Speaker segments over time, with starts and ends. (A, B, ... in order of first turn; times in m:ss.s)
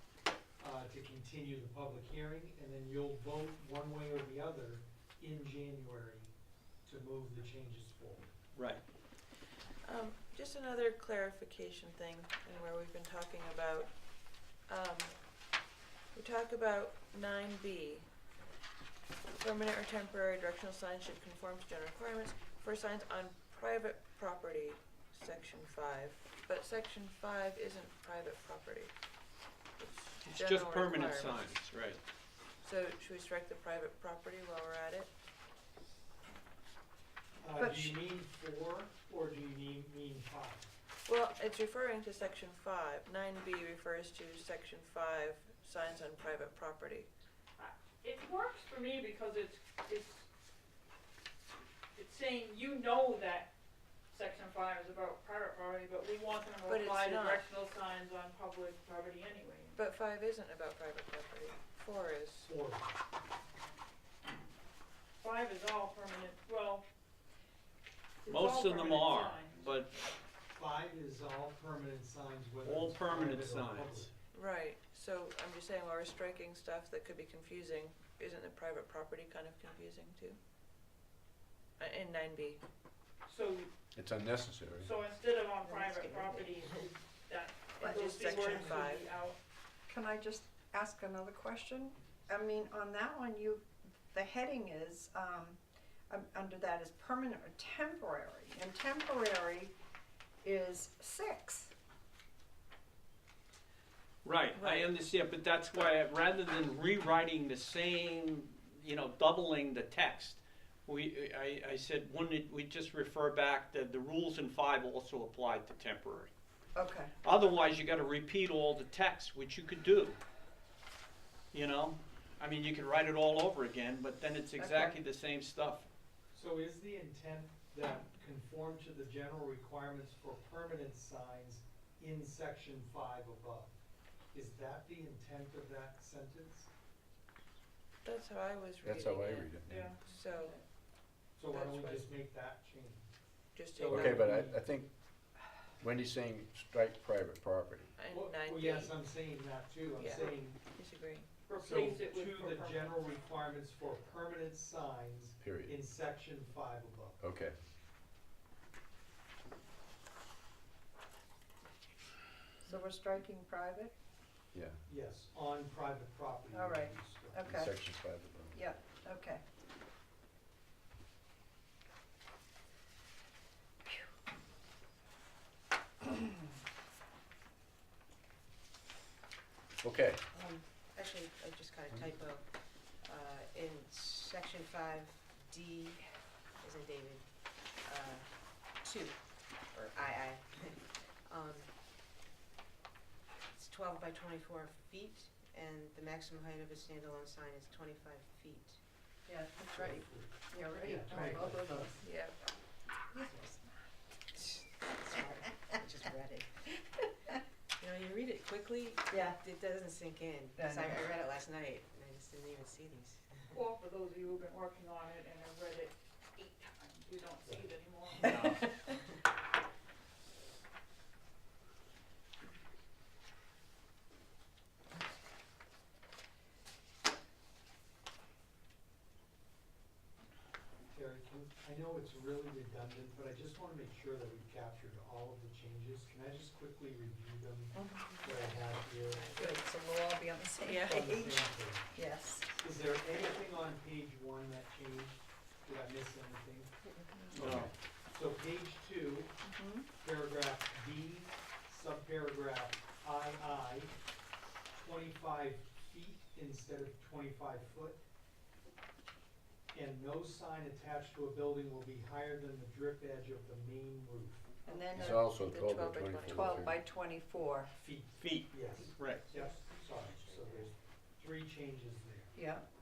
0:00.6-0:06.3 A
0:06.8-0:08.3 A
0:08.5-0:08.8 B
0:09.8-0:13.9 C
0:14.6-0:15.2 C
0:16.1-0:18.1 C
0:19.4-0:28.9 C
0:29.8-0:31.5 C
0:30.2-0:32.0 B
0:32.6-0:35.1 C
0:37.4-0:40.7 A
0:37.6-0:38.0 D
0:41.0-0:47.1 C
0:47.6-0:50.2 E
0:51.9-0:53.5 E
0:54.1-0:59.8 E
0:56.6-0:57.5 C
0:59.8-1:02.5 C
1:02.5-1:03.0 A
1:05.2-1:06.8 E
1:08.2-1:09.8 E
1:08.3-1:09.9 B
1:10.5-1:14.1 A
1:12.6-1:14.1 B
1:14.3-1:20.4 C
1:21.8-1:22.6 C
1:23.2-1:23.7 E
1:23.9-1:24.9 F
1:24.8-1:29.4 E
1:25.6-1:26.9 G
1:27.8-1:28.2 D
1:27.8-1:29.1 C
1:29.9-1:39.7 D
1:40.4-1:41.7 D
1:44.2-1:56.3 B
1:44.5-1:44.9 C
1:56.7-1:57.1 D
1:57.2-2:00.2 B
2:01.5-2:05.9 B
2:04.6-2:05.0 D
2:06.3-2:13.7 A
2:14.3-2:16.7 A
2:18.0-2:20.6 C
2:18.8-2:20.0 F
2:19.6-2:20.6 E
2:21.4-2:23.1 A
2:21.5-2:22.1 C
2:23.5-2:24.3 C
2:23.7-2:24.7 A
2:23.9-2:24.9 F
2:25.8-2:27.9 F
2:28.0-2:29.0 C
2:28.1-2:30.6 A
2:30.0-2:31.3 C
2:31.5-2:33.0 E
2:31.6-2:37.2 A
2:35.4-2:35.8 F
2:37.2-2:37.6 F
2:42.6-2:43.9 D
2:44.5-2:44.8 F
2:44.9-2:47.5 A
2:46.5-2:47.7 D
2:47.4-2:48.6 F
2:48.6-2:49.4 D
2:59.8-3:00.2 F
3:00.3-3:11.7 G
3:13.5-3:18.8 G
3:19.3-3:22.0 D
3:19.6-3:21.9 A
3:22.0-3:22.4 C
3:23.1-3:23.6 D
3:24.3-3:26.9 G
3:27.8-3:33.5 G
3:29.1-3:29.4 D
3:30.6-3:31.1 D
3:33.5-3:38.6 E
3:38.2-3:38.7 B
3:50.9-3:59.4 A
3:57.7-3:59.7 C
3:59.4-4:02.5 D
4:00.6-4:01.2 C
4:00.8-4:02.0 A
4:02.6-4:06.8 A
4:07.1-4:07.4 C
4:07.4-4:07.7 F
4:07.4-4:09.4 A
4:07.4-4:07.7 B
4:09.4-4:09.9 D
4:09.9-4:14.0 A
4:14.8-4:18.0 A
4:19.7-4:24.6 A
4:24.7-4:25.2 D
4:24.7-4:26.8 C
4:25.0-4:26.8 F
4:26.3-4:27.7 D
4:27.7-4:32.4 A
4:28.2-4:29.3 B
4:29.2-4:30.6 C
4:32.4-4:32.6 D